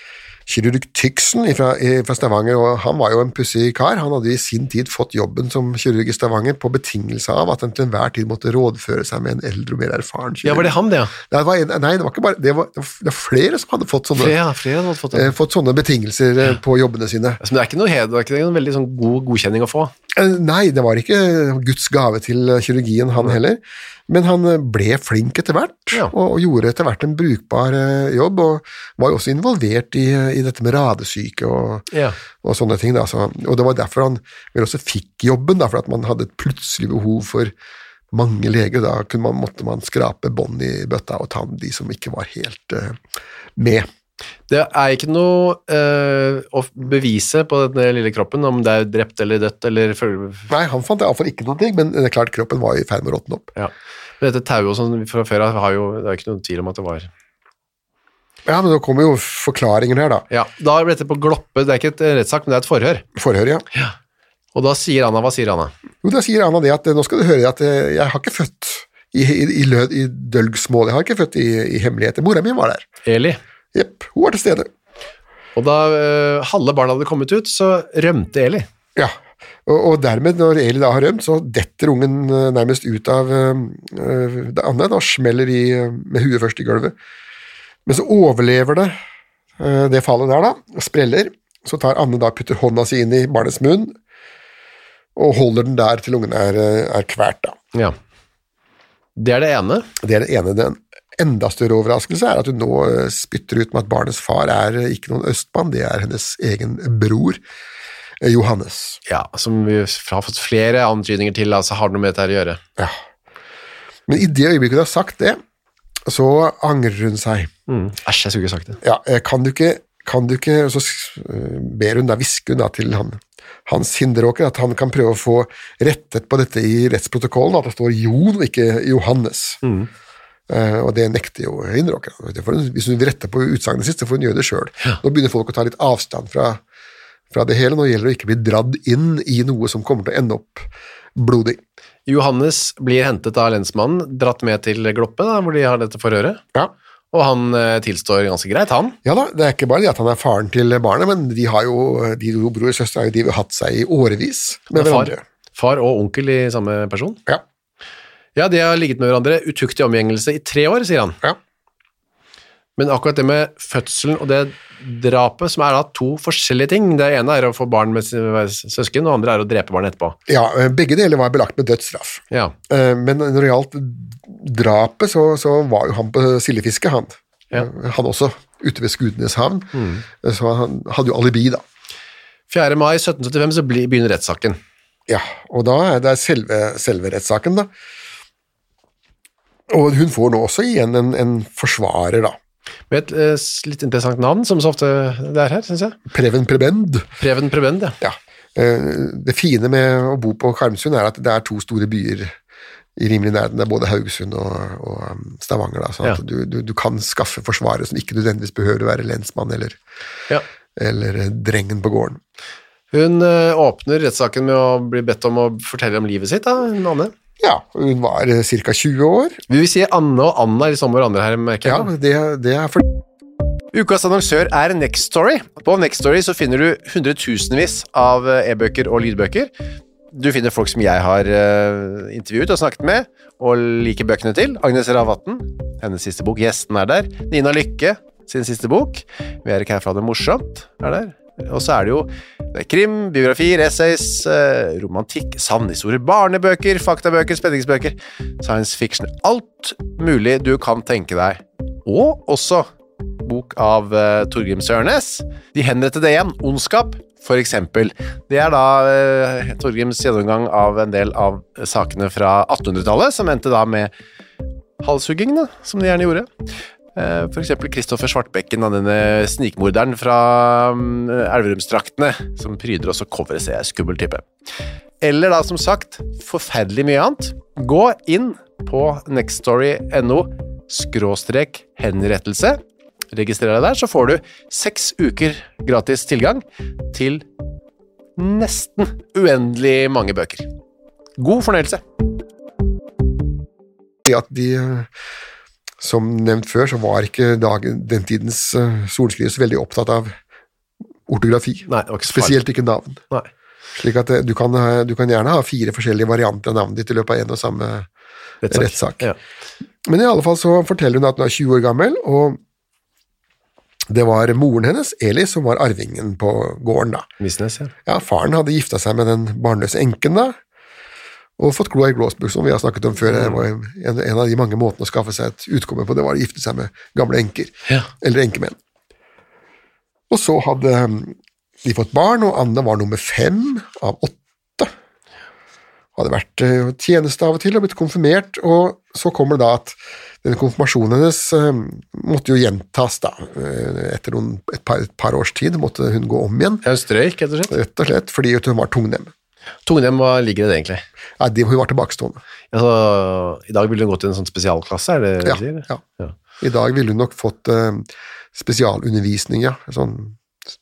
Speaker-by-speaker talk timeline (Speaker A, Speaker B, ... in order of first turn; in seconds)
Speaker A: 0.5-14.4, 15.1-17.4, 20.1-31.9, 32.4-37.5, 38.1-43.0, 43.6-43.9, 50.5-53.5, 58.5-60.3, 63.2-63.6, 66.0-72.9, 73.7-74.7, 79.0-87.0, 87.9-89.0, 89.6-94.0, 95.2-97.6, 100.0-107.4, 108.2-109.0, 114.1-115.4, 116.1-117.5, 118.8-129.6, 130.5-136.6, 137.3-141.6, 149.1-155.2, 170.3-181.6, 185.1-187.7, 189.7-192.4, 196.1-197.1, 198.0-202.3, 203.0-209.8, 210.8-212.2, 217.4-219.4, 221.7-222.9, 294.1-294.9, 295.8-300.2, 301.1-303.0, 303.8-307.9, 308.5-309.1, 309.9-312.4, 313.9-317.1, 317.9-320.4, 321.4-328.6, 330.1-334.7, 336.0-346.6, 347.5-349.1, 351.2-352.2, 355.2-355.8, 356.4-360.2
Speaker B: 10.4-11.2, 14.2-15.3, 17.4-19.9, 31.9-32.2, 44.5-50.5, 53.6-57.1, 60.3-63.0, 64.5-65.7, 73.1-73.4, 75.6-78.7, 99.2-99.9, 109.1-112.6, 117.7-118.8, 129.6-129.9, 142.1-146.4, 147.1-149.0, 154.7-157.2, 158.4-161.2, 162.8-170.2, 179.8-180.0, 182.5-184.6, 192.9-196.0, 197.2-198.0, 212.9-217.1, 219.5-221.9, 223.7-229.5, 230.1-252.7, 253.2-263.9, 264.8-266.3, 267.0-274.3, 275.0-282.6, 283.1-287.3, 288.2-290.5, 291.2-291.8, 301.7-302.4, 308.4-309.2, 317.2-317.7, 323.1-323.4, 346.6-347.5, 349.7-350.8, 352.5-356.1